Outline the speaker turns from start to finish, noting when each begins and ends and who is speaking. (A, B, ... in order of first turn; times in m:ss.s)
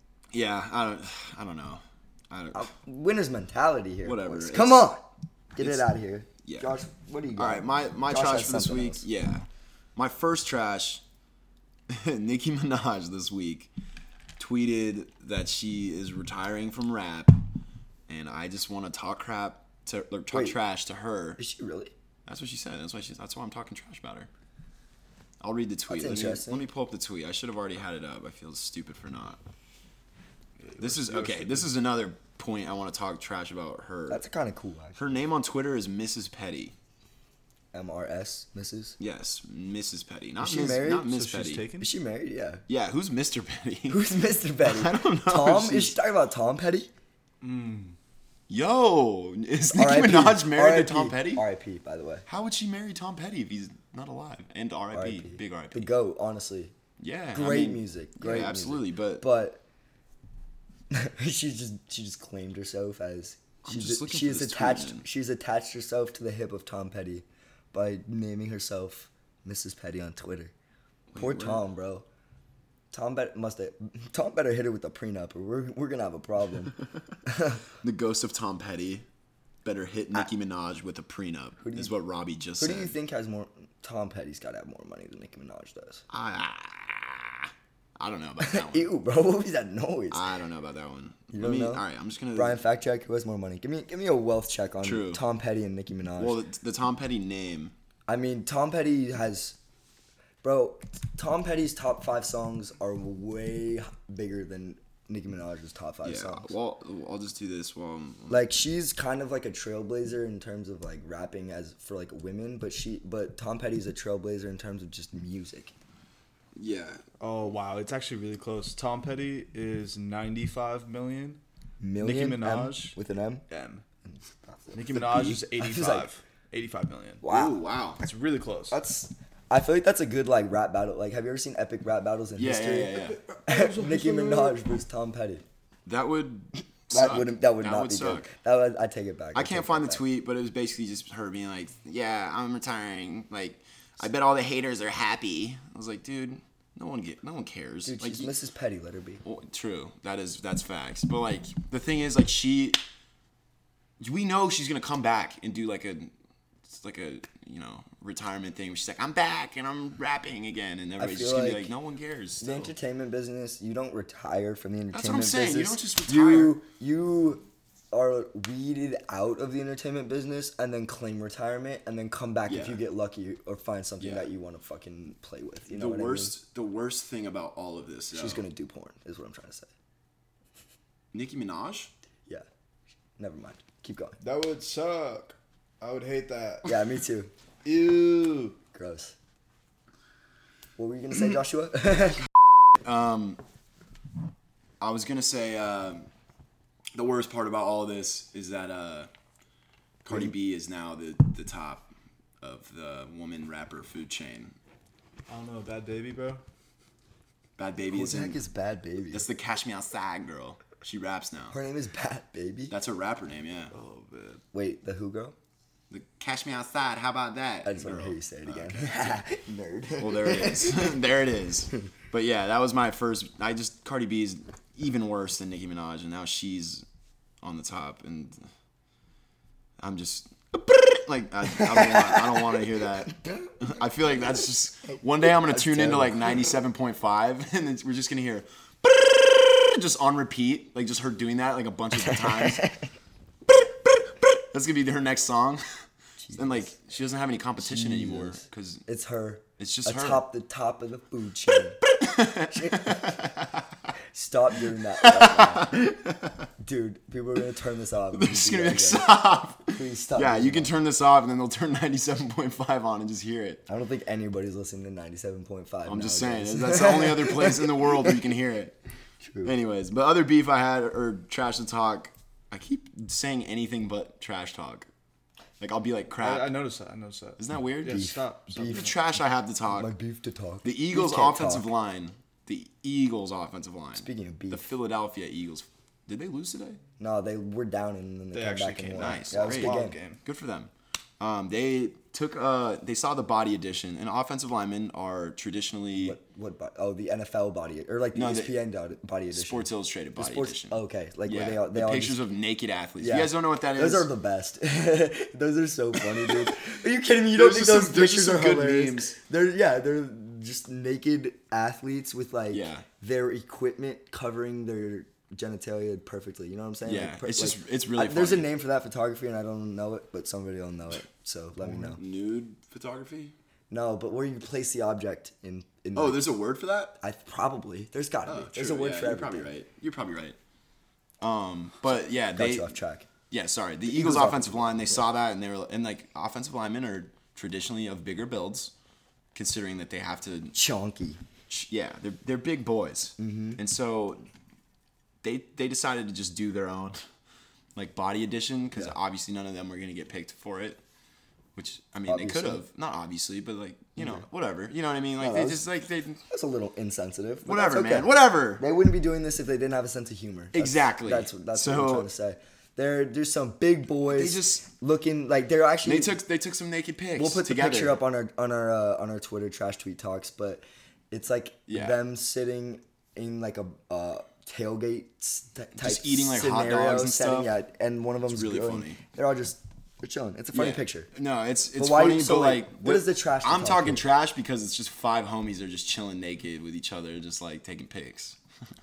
0:00.3-0:02.7 A
0:02.5-0:09.0 B
0:04.0-0:04.9 A
0:05.6-0:05.9 A
0:06.4-0:06.7 A
0:07.4-0:11.0 A
0:11.9-0:13.7 A
0:14.4-0:17.4 A
0:18.1-0:21.4 A
0:20.3-0:20.6 B
0:21.4-0:21.9 B
0:22.2-0:24.3 A
0:25.4-0:29.4 A
0:25.9-0:26.6 B
0:30.7-0:31.7 C
0:30.8-0:34.2 A
0:34.1-0:35.0 B
0:34.9-0:36.7 A
0:37.7-0:39.0 B
0:39.0-0:41.7 A
0:40.4-0:41.1 B
0:41.1-0:41.9 C
0:41.8-0:42.6 B
0:42.7-0:44.0 A
0:43.9-0:46.9 B
0:44.6-0:46.0 A
0:47.4-0:48.0 C
0:48.5-0:51.4 A
0:49.7-0:52.2 B
0:52.3-0:55.9 A
0:54.9-0:56.7 B
0:57.0-0:59.2 A
0:57.3-0:59.6 B
1:00.9-1:10.5 B
1:03.6-1:05.0 A
1:11.1-1:11.6 A
1:11.2-1:12.0 B
1:12.9-1:16.7 B
1:17.2-1:17.6 B
1:17.8-1:19.0 A
1:19.6-1:23.0 A
1:21.6-1:21.9 B
1:22.6-1:26.0 B
1:26.1-1:28.9 A
1:28.4-1:30.2 B
1:30.1-1:32.6 A
1:31.3-1:31.8 B
1:32.3-1:36.4 B
1:34.8-1:35.2 A
1:36.2-1:37.7 A
1:38.1-1:39.6 B
1:40.4-1:46.5 B
1:46.0-1:48.5 A
1:48.3-1:55.7 B
1:56.6-1:57.0 A
1:57.2-2:01.4 C
2:01.8-2:03.4 B
2:02.0-2:03.0 C
2:03.5-2:03.8 C
2:04.5-2:04.8 B
2:04.7-2:07.2 C
2:04.9-2:05.4 A
2:05.6-2:06.1 B
2:07.2-2:07.6 B
2:07.2-2:08.0 A
2:08.0-2:08.8 C
2:08.7-2:12.9 B
2:12.4-2:13.2 A
2:13.2-2:14.6 C
2:13.5-2:15.4 B
2:15.8-2:18.3 A
2:16.9-2:20.0 B
2:19.3-2:28.3 A
2:27.8-2:29.2 B
2:29.2-2:32.8 A
2:34.0-2:36.1 A
2:36.7-2:42.7 A
2:41.0-2:41.7 B
2:42.4-2:56.3 B
2:44.9-2:46.6 A
2:52.5-2:52.8 A
2:54.0-2:54.3 A
2:55.7-2:58.4 A
2:58.1-2:59.7 B
3:01.1-3:01.9 A
3:03.2-3:04.2 B
3:04.2-3:06.7 C
3:06.6-3:07.3 B
3:07.6-3:08.6 C
3:08.7-3:09.1 B
3:10.8-3:12.2 B
3:12.8-3:13.4 A
3:14.8-3:16.1 A
3:16.9-3:19.1 A
3:20.0-3:21.9 A
3:22.4-3:24.6 A
3:25.3-3:26.4 C
3:27.6-3:28.4 A
3:27.9-3:29.2 B
3:29.1-3:31.6 A
3:31.5-3:32.7 B
3:32.7-3:33.7 A
3:33.7-3:34.4 C
3:34.5-3:35.3 B
3:35.9-3:39.2 A
3:37.6-3:40.9 B
3:40.0-3:46.8 A
3:47.4-3:48.5 A
3:49.8-4:02.7 A
3:51.7-3:52.4 B
3:55.2-3:56.5 B
4:02.0-4:02.8 B
4:04.2-4:05.6 A
4:06.2-4:06.7 B
4:06.3-4:08.8 A
4:07.6-4:11.8 B
4:09.6-4:10.2 A
4:11.9-4:13.6 A
4:12.5-4:13.0 B
4:14.1-4:15.9 B
4:15.0-4:16.4 A
4:16.6-4:19.1 B
4:18.1-4:23.6 A
4:19.7-4:20.7 B
4:23.7-4:28.1 B
4:25.8-4:28.8 A
4:29.2-4:29.5 B
4:29.4-4:34.9 A
4:35.6-4:36.5 A
4:36.2-4:38.9 C
4:37.4-4:38.1 A
4:37.8-4:38.9 B
4:38.6-4:39.9 A
4:39.7-4:41.6 B
4:40.6-4:46.8 A
4:44.0-4:44.7 B
4:47.0-4:50.0 B
4:48.3-4:50.2 C
4:49.0-4:56.2 A
4:56.0-5:02.2 B
4:58.1-4:58.5 A
4:59.3-5:04.1 A
5:03.0-5:22.0 B
5:07.3-5:09.2 A
5:12.5-5:12.8 A
5:16.8-5:18.5 A
5:21.6-5:23.3 A
5:23.7-5:26.3 B
5:25.9-5:27.0 A
5:27.0-5:29.5 B
5:28.2-5:30.4 A
5:31.2-5:32.7 A
5:32.3-5:33.1 B
5:33.3-5:38.7 A
5:33.9-5:35.0 B
5:39.3-5:40.5 A
5:40.5-5:41.2 B
5:41.5-5:44.2 A
5:43.2-5:43.6 B
5:45.2-5:47.0 A
5:47.7-5:50.8 A
5:51.6-5:56.2 A
5:52.1-5:52.6 B
5:54.0-5:54.2 B
5:55.2-5:55.6 B
5:56.3-6:06.2 B
5:57.4-5:58.6 A
6:00.5-6:02.1 A
6:04.1-6:04.6 A
6:05.8-6:08.0 A
6:07.2-6:21.1 B
6:11.7-6:12.0 A
6:15.8-6:17.5 A
6:18.3-6:19.0 A
6:20.5-6:28.4 A
6:21.8-6:24.1 B